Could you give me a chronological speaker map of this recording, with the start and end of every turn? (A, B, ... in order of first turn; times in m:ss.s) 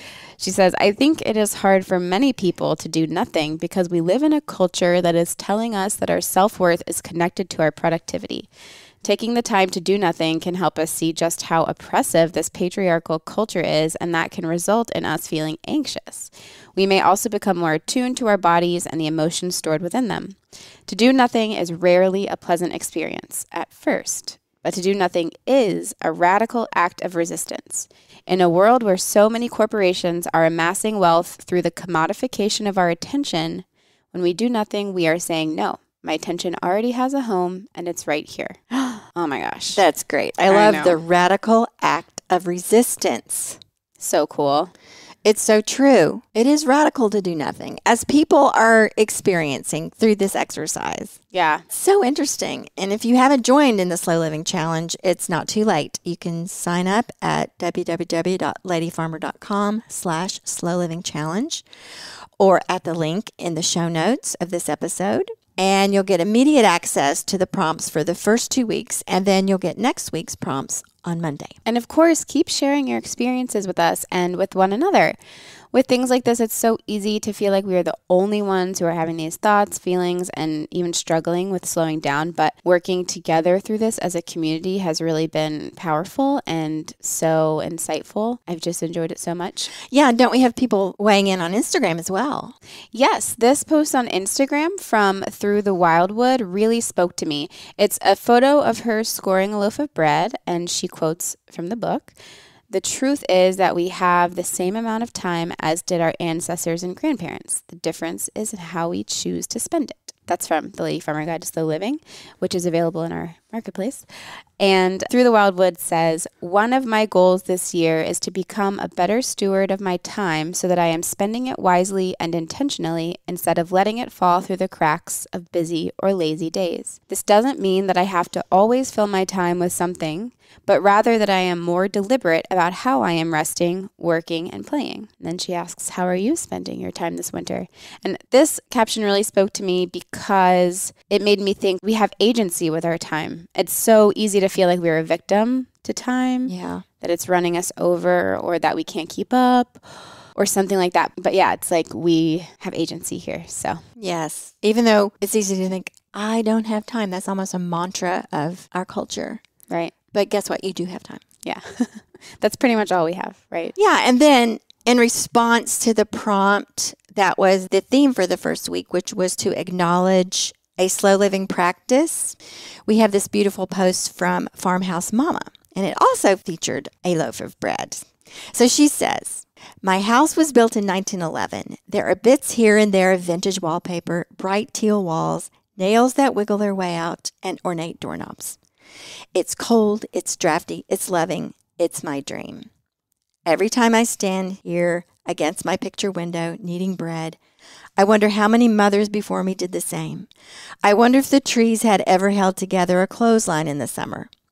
0:00.4-0:08.5 A
0:09.0-0:38.6 A
0:39.1-0:39.8 A
0:39.7-0:43.6 B
0:40.5-0:41.0 A
0:44.0-0:44.7 A
0:45.2-0:51.1 B
0:51.3-0:51.6 A
0:51.7-1:01.6 B
1:02.4-1:11.6 B
1:11.7-1:15.2 A
1:15.7-1:29.7 A
1:29.9-1:32.5 B
1:32.9-1:42.1 A
1:42.7-1:54.0 A
1:54.6-2:29.8 A
2:26.5-2:26.8 B
2:30.4-2:33.8 A
2:34.0-2:39.4 B
2:40.1-2:41.2 B
2:41.4-2:43.8 A
2:43.8-3:08.6 B
3:09.3-3:12.7 B
3:13.4-3:17.4 B
3:18.0-3:20.3 B
3:20.8-3:24.3 B